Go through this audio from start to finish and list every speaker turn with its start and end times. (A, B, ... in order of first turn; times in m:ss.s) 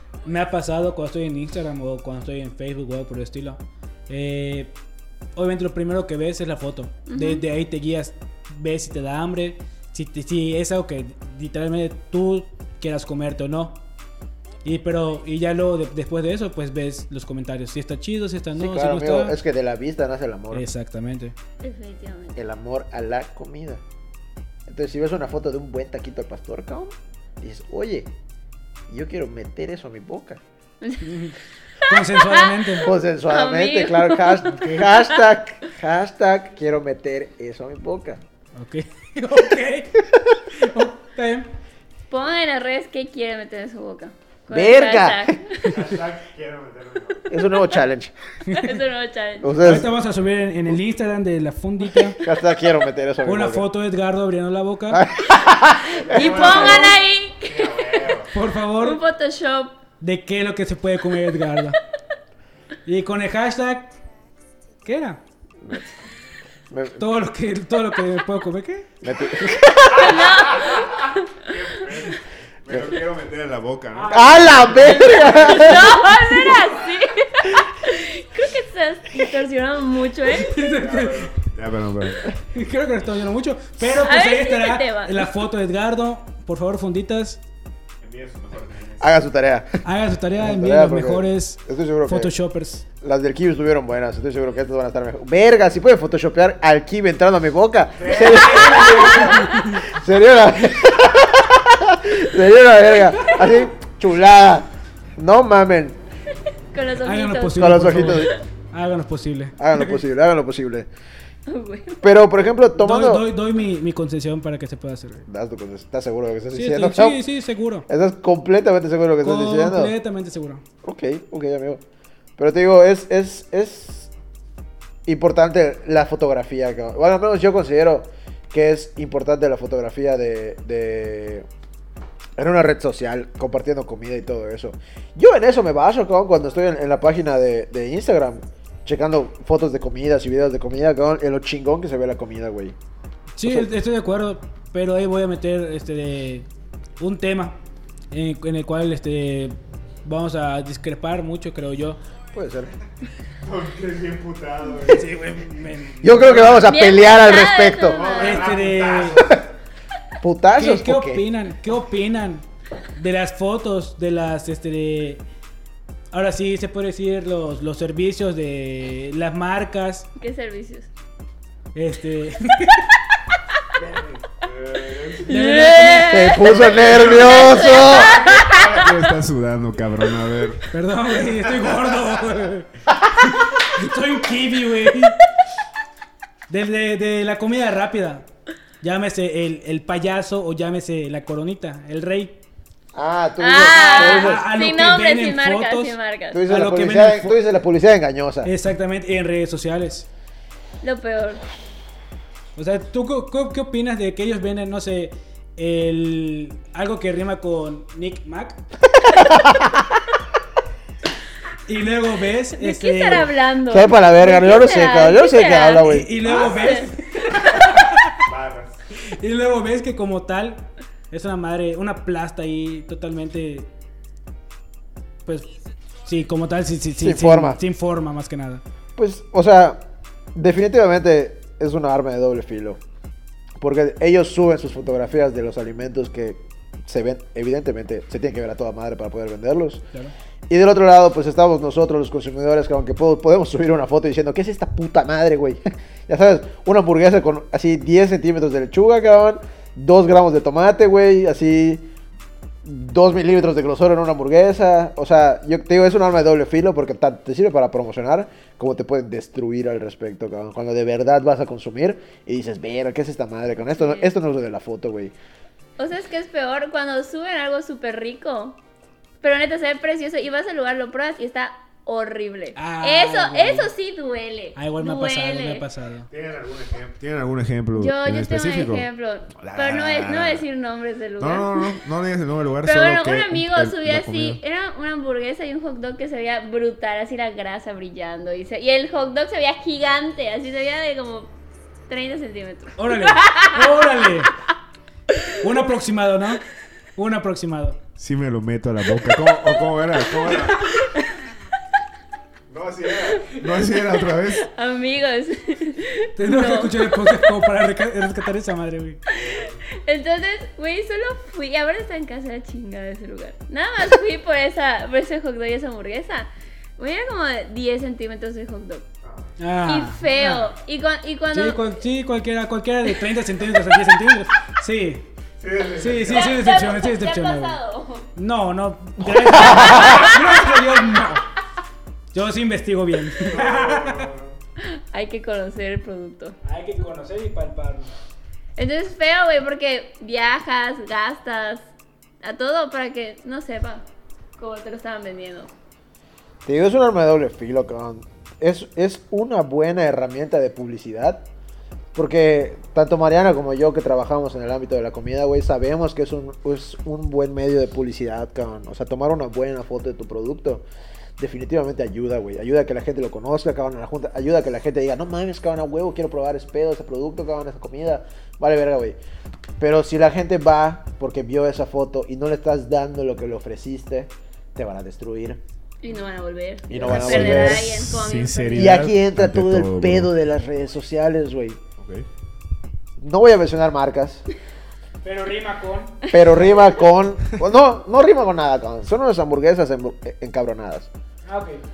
0:00.2-0:04.7 A
0:05.3-0:13.8 A
0:07.1-0:07.4 B
0:14.6-0:19.4 A
0:18.5-0:20.7 C
0:20.5-0:21.3 A
0:21.6-0:22.4 B
0:22.4-0:23.8 C
0:24.7-0:28.1 C
0:28.9-0:30.4 C
0:30.8-0:31.1 B
0:31.0-0:31.3 A
0:31.8-0:32.9 A
0:31.8-0:35.2 B
0:32.8-0:38.2 C
0:34.5-0:34.8 A
0:38.6-0:41.5 A
0:42.1-0:45.7 B
0:44.5-0:45.4 C
0:45.6-0:47.3 D
0:47.3-0:48.1 C
0:48.4-0:48.8 A
0:48.6-0:49.5 B
0:49.4-0:49.9 C
0:49.6-0:52.2 A
0:52.2-0:53.7 C
0:53.2-0:55.0 A
0:54.9-0:56.0 C
0:56.0-0:58.3 D
0:56.1-0:57.8 B
0:56.2-0:56.9 A
0:58.3-0:59.0 A
0:58.8-0:59.8 B
1:00.0-1:01.8 A
1:02.8-1:03.9 A
1:04.8-1:05.2 A
1:05.6-1:05.9 C
1:06.7-1:07.0 C
1:07.0-1:08.9 A
1:09.0-1:10.3 C
1:09.9-1:11.3 B
1:10.0-1:15.7 D
1:12.7-1:12.9 C
1:13.9-1:15.7 A
1:14.1-1:16.0 C
1:15.0-1:20.6 B
1:20.3-1:21.3 A
1:20.6-1:22.4 D
1:22.5-1:27.4 A
1:23.8-1:25.3 B
1:28.0-1:29.2 D
1:29.0-1:29.8 C
1:29.8-1:32.8 A
1:30.4-1:32.3 C
1:33.0-1:46.0 C
1:38.0-1:39.0 D
1:38.1-1:39.8 A
1:39.2-1:39.4 B
1:46.7-1:48.4 B
1:47.0-1:50.0 A
1:47.5-1:48.4 C
1:49.6-1:50.9 C
1:51.5-1:52.0 B
1:52.0-1:53.3 C
1:52.8-1:55.2 A
1:55.3-1:57.2 C
1:56.5-1:57.8 A
1:57.9-1:59.9 C
1:59.2-2:00.6 A
2:00.8-2:01.8 C
2:02.4-2:04.1 C
2:05.0-2:11.5 C
2:12.4-2:22.8 C
2:23.4-2:26.5 A
2:27.0-2:27.6 A
2:28.1-2:32.0 A
2:32.3-2:32.7 C
2:33.4-2:35.1 D
2:34.8-2:36.7 A
2:36.0-2:38.1 C
2:36.6-2:38.5 B
2:37.8-2:39.5 D
2:38.2-2:39.2 A
2:40.2-2:41.2 C
2:40.5-2:45.2 A
2:46.1-2:50.1 A
2:50.2-2:50.9 B
2:51.7-2:52.9 A
2:53.8-2:55.4 D
2:55.3-2:56.3 A
2:55.3-2:59.1 B
2:56.0-2:58.2 C
2:56.4-3:00.7 D
3:00.7-3:05.2 A
3:01.5-3:01.8 D
3:06.5-3:08.2 A
3:08.8-3:12.4 A
3:12.9-3:14.5 C
3:13.4-3:16.4 B
3:13.8-3:16.0 A
3:16.3-3:18.5 C
3:16.5-3:17.4 A
3:18.4-3:20.1 A
3:20.8-3:21.4 B
3:22.6-3:28.6 A
3:29.1-3:29.8 C
3:31.6-3:33.3 A
3:32.6-3:36.9 B
3:33.7-3:36.4 C
3:35.8-3:38.2 A
3:36.4-3:36.7 D
3:37.4-3:38.8 D
3:39.0-3:43.7 A
3:46.0-3:48.6 A
3:47.0-3:47.6 C
3:49.0-3:49.8 C
3:50.3-3:52.8 C
3:53.6-3:59.8 C
4:00.5-4:11.9 C
4:12.6-4:25.1 C
4:23.8-4:24.1 B
4:25.8-4:28.6 B
4:29.2-4:35.6 B
4:32.6-4:33.7 A
4:34.5-4:36.1 A
4:36.1-4:38.8 D
4:37.7-4:41.8 B
4:39.4-4:40.4 D
4:41.2-4:44.4 D
4:42.6-4:51.3 B
4:51.9-4:53.8 B
4:52.8-4:54.3 A
4:55.4-4:56.4 A
4:57.0-4:57.8 A
4:58.0-5:00.7 D
5:00.3-5:01.1 B
5:02.5-5:04.5 D
5:03.7-5:07.2 B
5:06.2-5:09.0 A
5:09.1-5:18.8 B
5:09.1-5:09.5 D
5:19.0-5:19.3 D
5:19.4-5:20.5 A
5:19.7-5:21.7 B
5:21.3-5:25.0 A
5:25.4-5:26.4 D
5:25.8-5:27.5 A
5:26.1-5:28.1 B
5:28.2-5:31.2 A
5:29.0-5:29.8 C
5:29.6-5:30.2 B
5:32.1-5:34.0 A
5:33.2-5:34.4 D
5:34.6-5:36.4 B
5:36.4-5:37.9 A
5:38.6-5:41.7 B
5:42.2-5:43.8 B
5:44.4-5:45.5 B
5:46.4-5:51.2 C
5:51.9-6:00.6 C
6:01.2-6:09.0 C
6:09.6-6:15.4 C
6:15.8-6:18.9 B
6:16.7-6:17.8 C
6:16.8-6:20.1 D
6:18.5-6:21.6 C
6:21.8-6:22.0 D
6:23.0-6:24.2 C
6:25.0-6:26.1 A
6:26.1-6:30.9 C
6:31.2-6:31.6 A